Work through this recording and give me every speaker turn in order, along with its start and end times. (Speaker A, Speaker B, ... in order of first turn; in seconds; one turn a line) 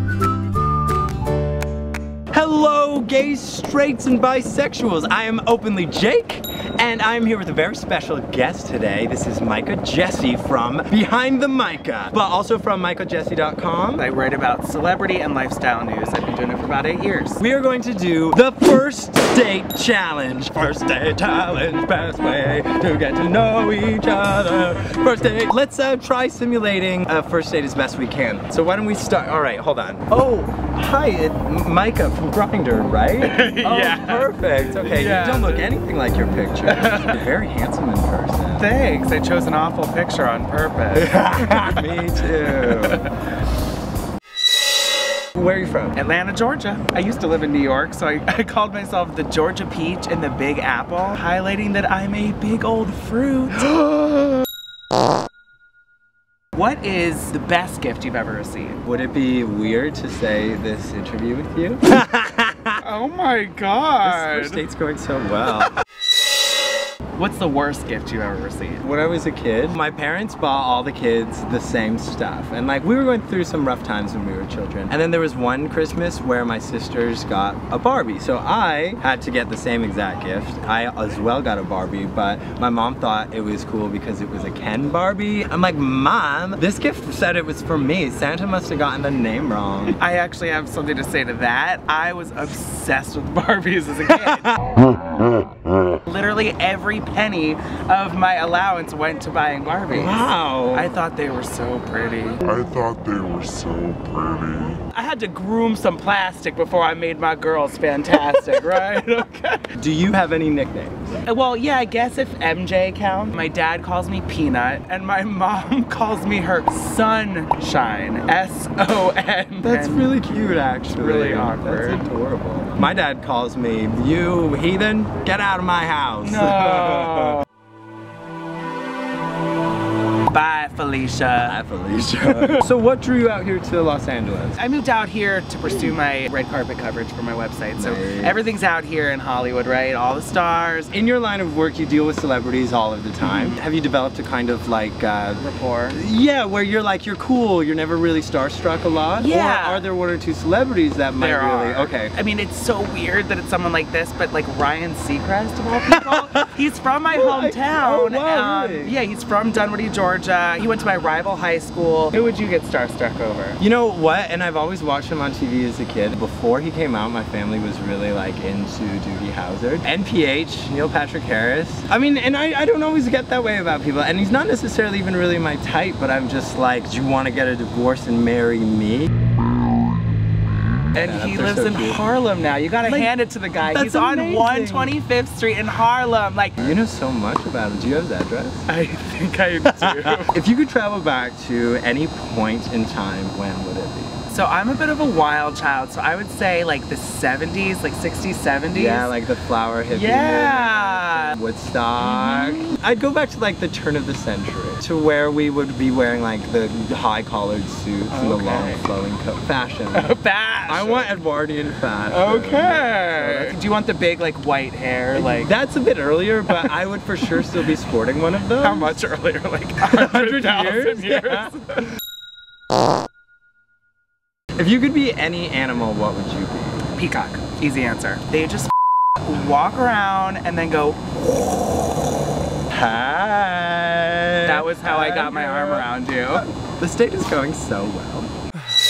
Speaker A: 2.3-14.0
Speaker B: 14.0-17.4
Speaker A: 17.4-38.7
Speaker B: 33.2-35.7
Speaker B: 36.6-37.2
Speaker B: 38.6-43.0
Speaker A: 40.9-43.0
Speaker A: 45.3-46.0
Speaker B: 45.9-54.1
Speaker B: 56.5-58.8
Speaker A: 58.8-62.8
Speaker B: 62.8-64.6
Speaker A: 64.0-65.7
Speaker B: 67.2-68.8
Speaker A: 68.8-90.0
Speaker B: 90.0-94.5
Speaker A: 94.0-94.6
Speaker B: 96.0-102.4
Speaker A: 99.9-101.0
Speaker C: 102.4-104.8
Speaker B: 104.8-109.7
Speaker A: 109.8-111.2
Speaker B: 111.2-120.1
Speaker A: 119.6-127.4
Speaker B: 120.9-122.1
Speaker B: 126.2-127.4
Speaker B: 130.3-131.6
Speaker A: 131.4-134.6
Speaker B: 134.6-140.9
Speaker A: 137.8-138.4
Speaker A: 140.9-152.1
Speaker B: 143.2-143.6
Speaker B: 145.4-146.0
Speaker B: 149.2-149.9
Speaker B: 151.2-163.6
Speaker A: 155.9-156.5
Speaker A: 157.1-158.9
Speaker A: 163.6-179.1
Speaker B: 180.9-186.7
Speaker A: 181.0-182.0
Speaker A: 182.8-184.9
Speaker A: 186.6-188.6
Speaker B: 188.7-190.3
Speaker A: 189.7-194.2
Speaker B: 194.3-199.1
Speaker A: 198.7-210.1
Speaker B: 199.9-201.4
Speaker B: 202.0-202.7
Speaker B: 208.1-208.8
Speaker B: 209.9-211.1
Speaker A: 210.7-213.6
Speaker B: 212.1-215.5
Speaker A: 215.1-218.9
Speaker B: 218.6-221.9
Speaker A: 219.8-221.5
Speaker A: 224.6-226.8
Speaker B: 226.9-231.0
Speaker A: 232.7-235.9
Speaker B: 234.4-236.4
Speaker A: 236.8-238.3